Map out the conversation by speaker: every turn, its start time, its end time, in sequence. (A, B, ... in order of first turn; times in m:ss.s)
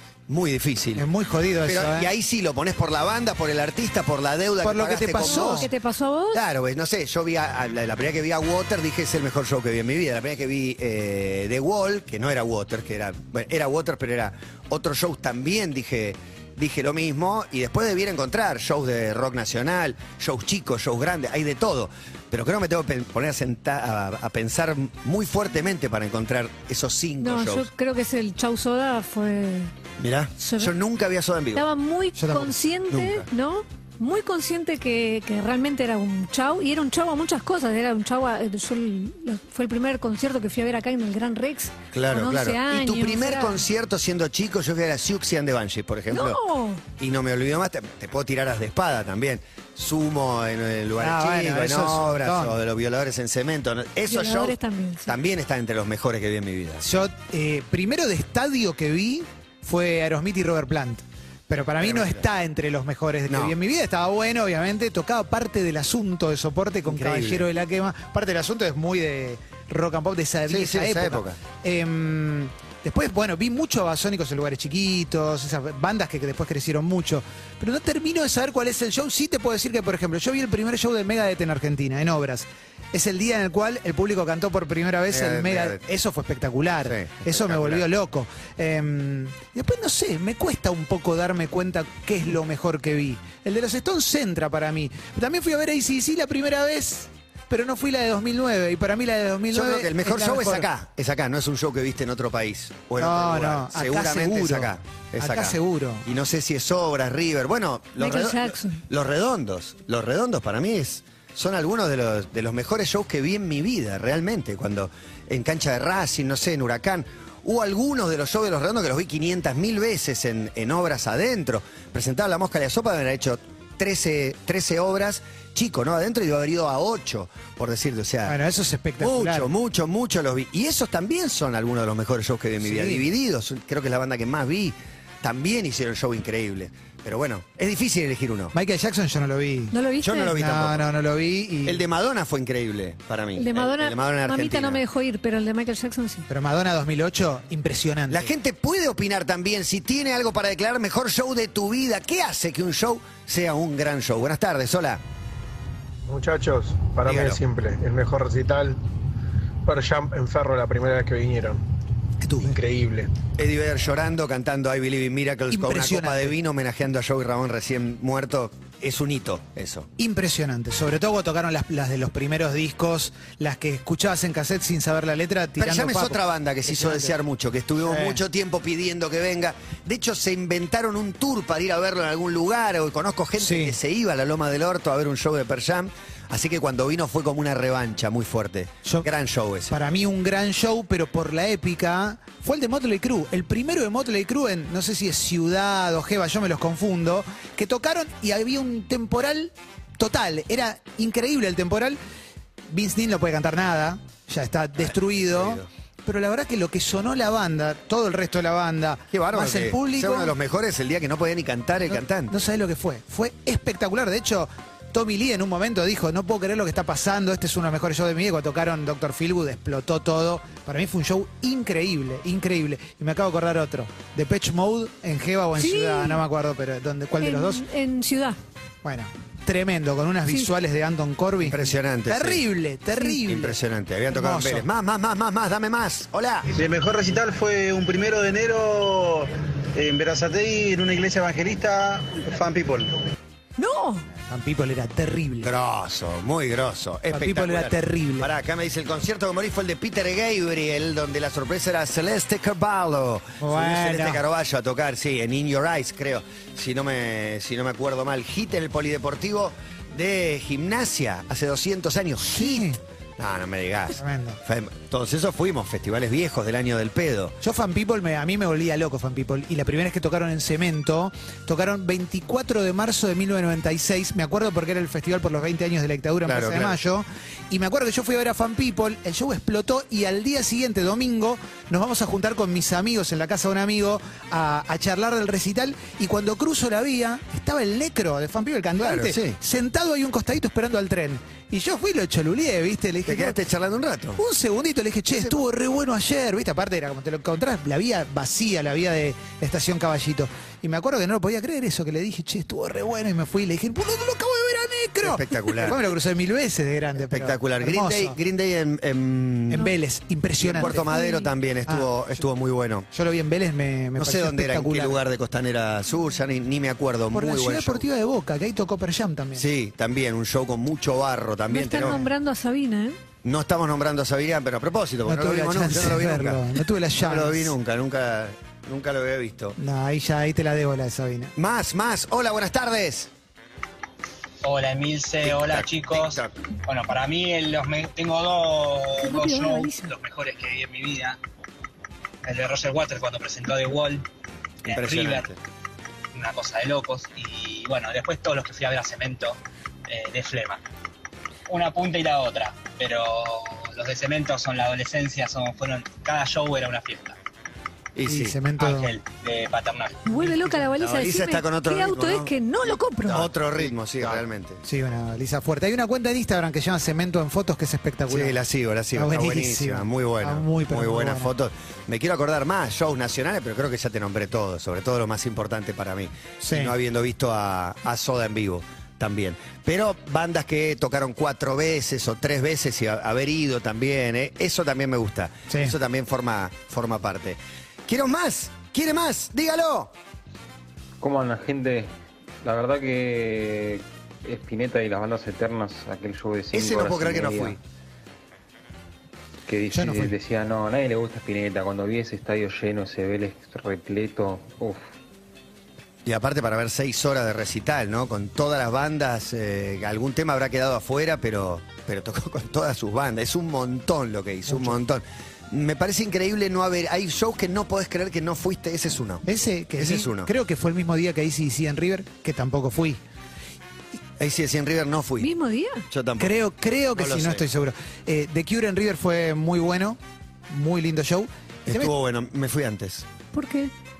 0:00.3-0:01.1 A
0:01.0-0:02.1 B
0:01.6-0:05.7 A
0:04.6-0:05.7 B
0:05.2-0:06.4 C
0:06.3-0:27.7 A
0:27.2-0:29.7 C
0:30.0-0:31.6 A
0:30.4-0:30.7 C
0:31.5-0:43.6 C
0:32.2-0:32.5 B
0:32.9-0:33.3 A
0:41.9-0:46.4 A
0:46.1-0:46.8 C
0:47.0-0:56.8 A
0:51.0-0:52.6 B
0:54.1-0:55.2 C
0:56.8-1:40.7 B
1:01.8-1:02.2 A
1:03.3-1:03.6 A
1:06.8-1:07.5 A
1:10.5-1:11.4 A
1:25.1-1:25.8 A
1:26.8-1:27.9 A
1:39.5-2:08.4 A
1:43.0-1:46.0 B
1:48.0-1:48.8 C
2:08.2-2:09.5 B
2:09.0-2:18.5 A
2:12.6-2:13.0 B
2:18.5-2:19.7 B
2:19.7-2:20.3 C
2:20.0-2:20.9 A
2:20.3-2:21.8 B
2:21.6-2:24.8 A
2:23.4-2:26.3 C
2:26.3-2:28.3 B
2:28.1-2:35.0 A
2:36.1-2:38.8 D
2:37.0-2:37.4 A
2:39.6-2:41.6 D
2:42.4-2:43.1 D
2:43.4-2:49.9 A
2:45.5-2:46.3 B
2:50.0-2:57.1 B
2:55.6-3:09.8 A
2:57.8-2:58.2 B
3:03.4-3:03.7 B
3:09.7-3:22.0 B
3:22.7-3:30.3 B
3:24.8-3:25.7 A
3:29.1-3:32.3 A
3:31.9-3:47.6 B
3:45.6-3:46.2 C
3:47.2-3:48.4 C
3:48.8-3:53.6 B
3:51.4-3:52.4 A
3:53.0-3:56.5 A
3:54.1-3:54.6 B
3:56.5-4:03.0 E
4:03.6-4:04.1 C
4:04.3-4:05.5 B
4:05.4-4:27.4 A
4:07.1-4:08.3 B
4:13.4-4:14.2 B
4:22.2-4:22.8 B
4:24.0-4:24.4 B
4:27.4-4:53.4 B
4:36.2-4:36.8 A
4:48.8-4:49.4 A
4:53.0-4:54.2 A
4:54.2-5:08.2 B
4:55.1-4:55.4 A
5:05.0-5:05.8 A
5:07.0-5:09.7 A
5:09.5-5:10.9 B
5:10.4-5:12.9 A
5:10.6-5:11.3 C
5:12.9-5:15.0 B
5:14.0-5:17.8 A
5:17.1-5:19.4 B
5:19.4-5:22.1 A
5:21.5-5:23.0 C
5:23.2-5:29.6 A
5:25.0-5:27.5 B
5:29.6-5:31.3 B
5:31.4-5:33.1 A
5:34.4-5:41.2 F
5:35.2-5:36.3 A
5:39.0-5:39.9 C
5:42.2-5:44.0 F
5:44.6-5:45.3 F
5:44.6-5:45.4 A
5:46.1-5:50.6 F
5:51.5-5:57.2 F
5:57.9-5:58.4 A
5:58.0-5:58.9 B
5:58.6-6:00.0 F
6:00.0-6:03.3 C
6:00.3-6:00.5 B
6:00.8-6:02.3 A
6:03.0-6:04.6 A
6:04.6-6:08.4 B
6:08.1-6:29.9 A
6:08.9-6:11.3 B
6:16.4-6:16.7 B
6:25.5-6:25.7 B
6:31.0-6:31.9 G
6:32.4-6:37.6 G
6:36.5-6:37.6 A
6:39.5-6:44.8 G
6:39.7-6:40.1 B
6:46.0-7:00.3 A
6:54.5-6:54.8 B
6:59.2-7:03.0 B
7:04.2-7:05.3 A
7:05.2-7:05.8 C
7:05.9-7:06.4 A
7:06.2-7:10.0 B
7:06.9-7:07.4 A
7:10.5-7:11.9 B
7:11.6-7:13.0 A
7:13.3-7:13.7 C